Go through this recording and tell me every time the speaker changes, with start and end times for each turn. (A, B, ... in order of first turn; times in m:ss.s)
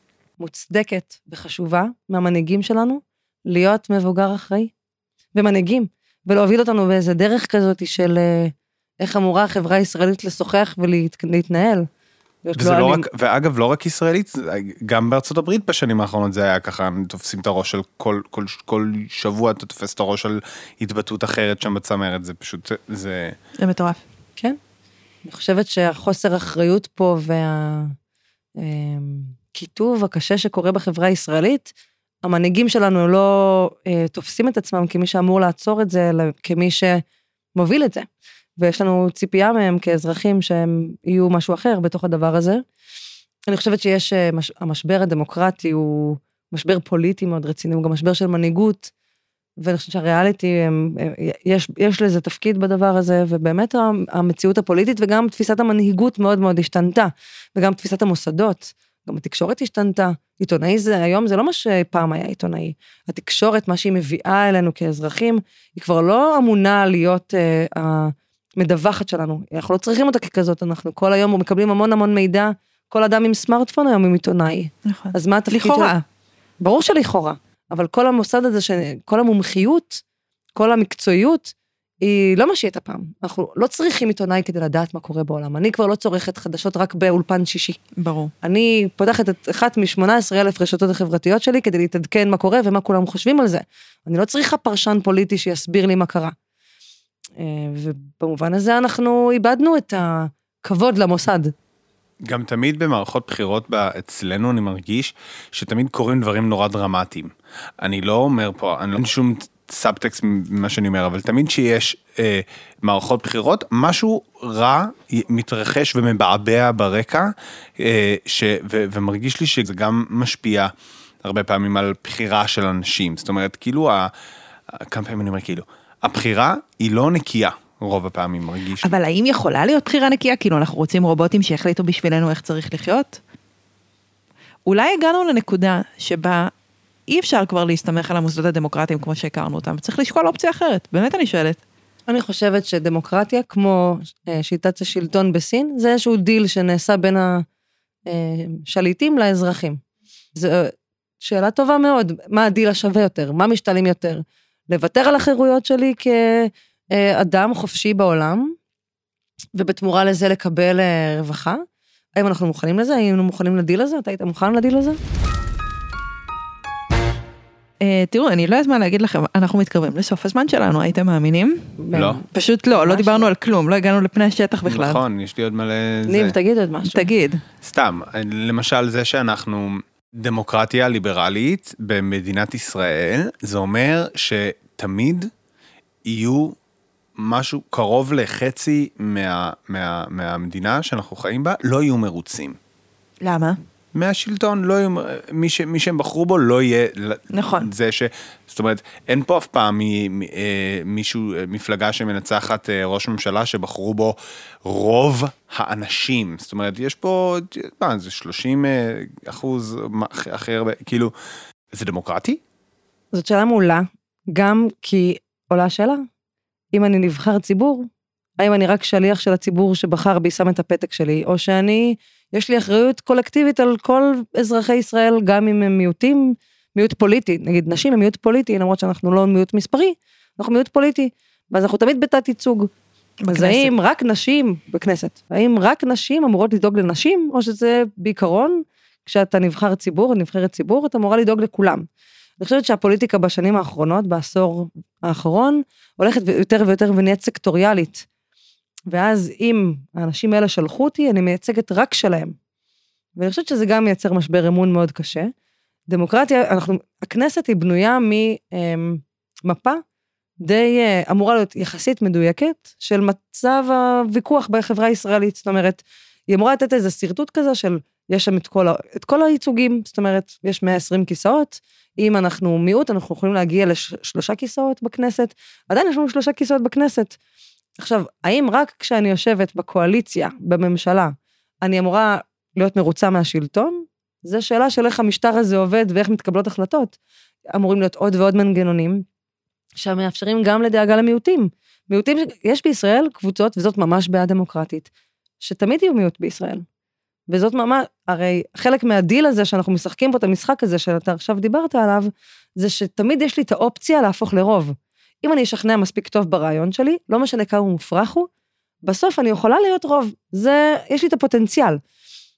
0:00.4-0:04.7 A
0:05.3-0:11.9 A
0:12.4-0:13.0 A
0:12.6-0:23.4 B
0:23.6-0:24.0 C
0:25.2-0:28.0 A
0:28.6-0:31.7 A
0:32.2-0:37.0 A
0:37.6-0:42.6 A
0:43.5-0:48.9 A
0:49.6-1:16.0 A
1:14.9-1:15.9 C
1:16.6-1:20.0 A
1:20.6-1:27.8 A
1:28.0-1:28.3 C
1:28.4-1:36.3 A
1:37.4-1:41.5 A
1:42.2-2:00.7 B
2:01.2-2:04.1 B
2:04.8-2:09.0 B
2:08.8-2:13.2 C
2:14.7-2:16.5 C
2:17.1-2:21.6 C
2:22.1-2:27.4 A
2:28.1-2:29.8 A
2:30.4-2:38.6 A
2:39.6-2:41.6 A
2:42.2-2:45.0 A
2:47.8-2:51.8 C
2:51.8-2:53.3 A
2:51.9-2:52.2 B
2:52.3-2:55.0 C
2:54.7-2:56.4 B
2:56.1-2:57.0 A
2:56.9-2:57.4 C
2:57.6-3:05.3 B
3:06.0-3:06.6 B
3:07.2-3:12.6 B
3:13.2-3:13.6 C
3:14.0-3:31.1 B
3:17.3-3:17.7 C
3:31.7-3:32.4 B
3:33.1-3:36.0 A
3:36.7-3:37.9 A
3:38.4-3:52.7 A
3:53.2-3:53.7 C
3:53.3-4:01.8 A
4:02.4-4:08.1 A
4:08.9-4:12.4 A
4:13.2-4:15.3 A
4:15.9-4:19.8 A
4:20.4-4:37.2 A
4:37.8-4:47.0 A
4:47.5-4:49.0 A
4:49.8-4:54.9 A
4:55.4-4:56.6 A
4:57.3-5:08.3 A
5:08.8-5:11.8 A